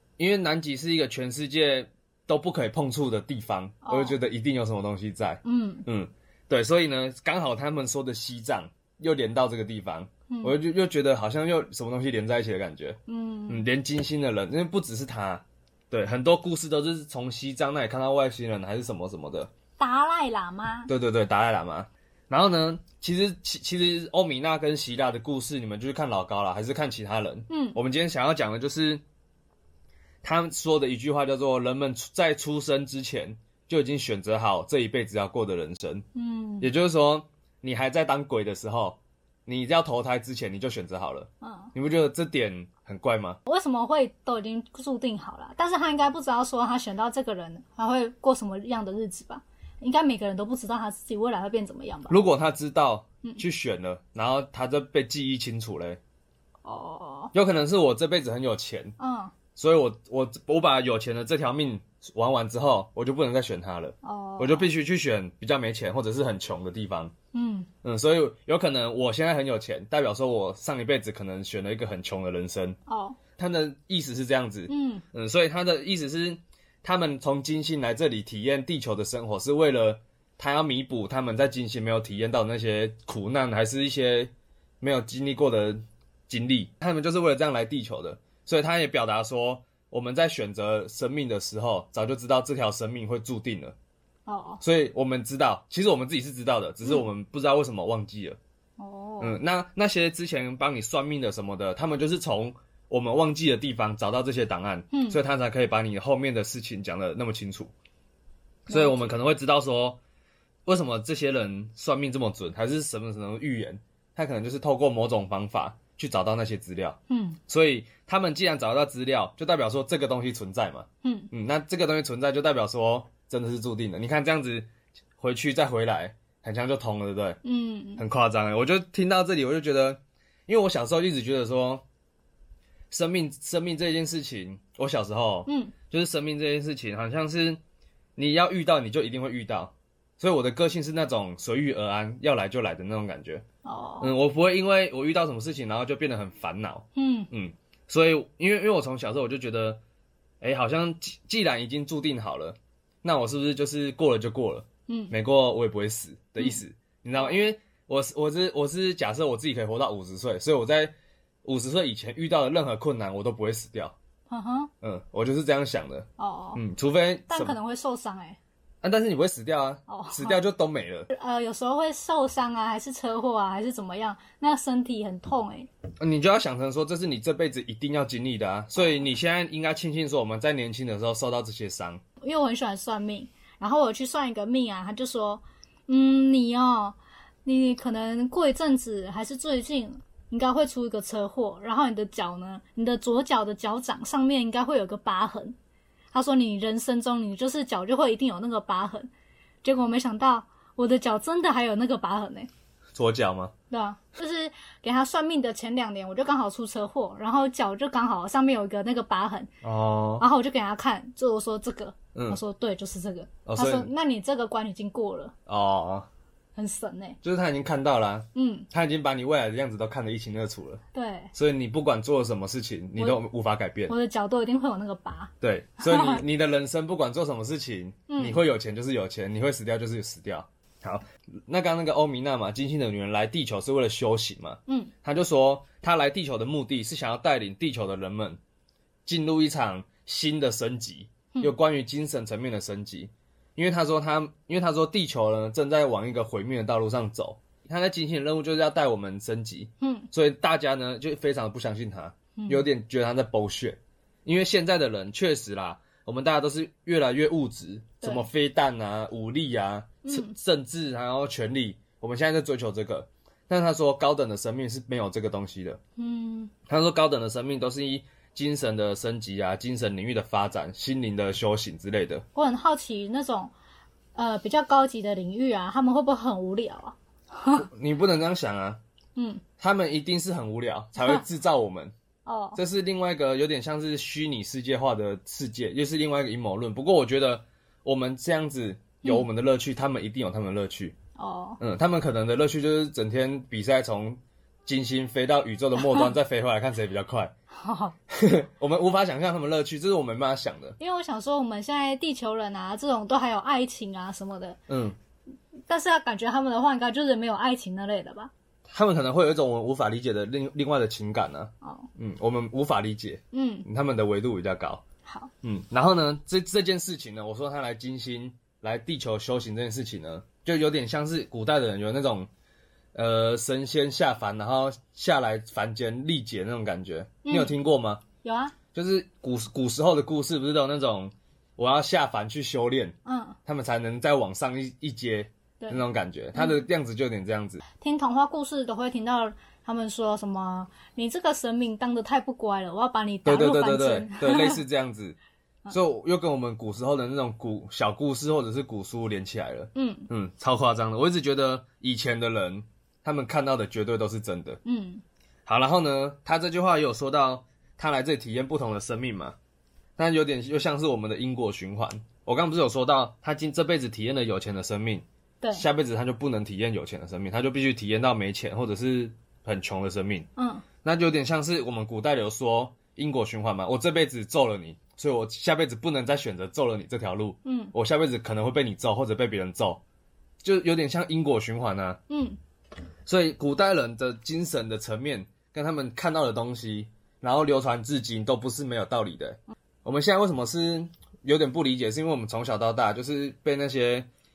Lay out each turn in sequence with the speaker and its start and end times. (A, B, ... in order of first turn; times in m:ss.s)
0:00.2-0:19.5 A
0:03.8-0:04.2 B
0:05.4-0:05.8 B
0:10.3-0:10.6 B
0:13.1-0:13.6 B
0:19.8-0:20.9 B
0:20.9-0:29.0 A
0:27.5-0:27.8 B
0:30.2-0:36.0 A
0:36.1-0:36.7 B
0:36.6-0:43.4 A
0:41.4-0:41.7 B
0:43.4-0:52.2 B
0:52.1-0:56.0 A
0:56.6-0:57.3 B
0:57.3-0:58.9 A
0:59.0-0:59.3 B
0:59.6-1:07.1 A
1:04.0-1:04.7 B
1:07.3-1:07.7 B
1:07.8-1:12.8 A
1:12.9-1:13.2 B
1:13.4-1:33.7 A
1:14.7-1:15.0 B
1:34.3-1:34.6 B
1:34.6-1:38.4 A
1:38.8-1:39.4 B
1:39.2-1:47.7 A
1:44.9-1:45.2 B
1:48.7-1:50.0 A
1:48.7-1:49.1 B
1:50.6-2:04.7 A
1:57.1-1:57.4 B
2:01.0-2:01.3 B
2:05.2-2:07.4 A
2:07.4-2:08.0 B
2:08.0-2:11.8 A
2:12.9-2:17.6 A
2:15.5-2:15.7 B
2:18.2-2:23.4 A
2:23.6-2:24.1 B
2:24.0-2:29.8 A
2:26.9-2:27.3 B
2:30.4-2:43.9 A
2:34.9-2:35.1 B
2:44.3-2:44.7 B
2:44.8-2:47.6 A
2:46.2-2:46.6 B
2:47.3-2:48.4 B
2:48.8-2:51.1 A
2:49.9-2:50.4 B
2:51.1-2:55.7 B
2:56.0-3:02.0 A
3:02.2-3:15.5 B
3:16.1-3:19.1 B
3:19.6-3:22.5 B
3:22.9-3:23.5 A
3:23.7-3:29.5 B
3:29.6-3:30.2 A
3:30.2-3:35.3 B
3:32.1-3:32.4 A
3:33.4-3:33.9 A
3:35.5-3:36.1 A
3:36.6-3:37.2 B
3:37.2-3:40.8 A
3:38.3-3:38.7 B
3:40.9-3:41.3 B
3:41.3-3:43.9 A
3:43.9-3:46.2 B
3:45.4-3:58.4 A
3:48.1-3:48.4 B
3:54.7-3:54.9 B
3:59.0-4:25.8 A
4:09.8-4:10.1 B
4:12.4-4:12.6 B
4:18.0-4:18.3 B
4:20.0-4:20.3 B
4:26.0-4:26.5 B
4:26.7-4:32.2 A
4:32.3-4:33.5 B
4:34.1-4:37.6 B
4:37.6-4:38.8 A
4:39.2-4:39.4 B
4:39.6-4:41.9 A
4:42.2-4:42.6 B
4:42.6-4:51.0 A
4:51.2-4:51.6 B
4:51.6-4:57.3 A
4:55.8-4:56.1 B
4:57.5-4:58.0 B
4:58.1-5:00.8 A
5:00.8-5:04.6 B
5:04.7-5:05.0 A
5:05.7-5:08.3 B
5:08.7-5:14.8 A
5:11.6-5:11.9 B
5:13.3-5:13.7 B
5:15.0-5:15.3 B
5:15.4-5:22.3 A
5:22.9-5:28.0 A
5:27.2-5:27.5 B
5:28.2-5:28.5 B
5:28.7-5:32.9 A
5:33.0-5:33.4 B
5:33.4-5:37.6 A
5:37.8-5:44.6 B
5:43.2-5:45.2 A
5:45.7-5:54.6 A
5:49.7-5:50.1 B
5:54.6-5:55.0 B
5:55.4-5:59.4 A
6:00.0-6:10.3 A
6:10.4-6:10.6 B
6:10.8-6:19.8 A
6:17.4-6:17.7 B
6:20.4-6:22.0 A
6:22.1-6:22.4 B
6:23.0-6:34.1 A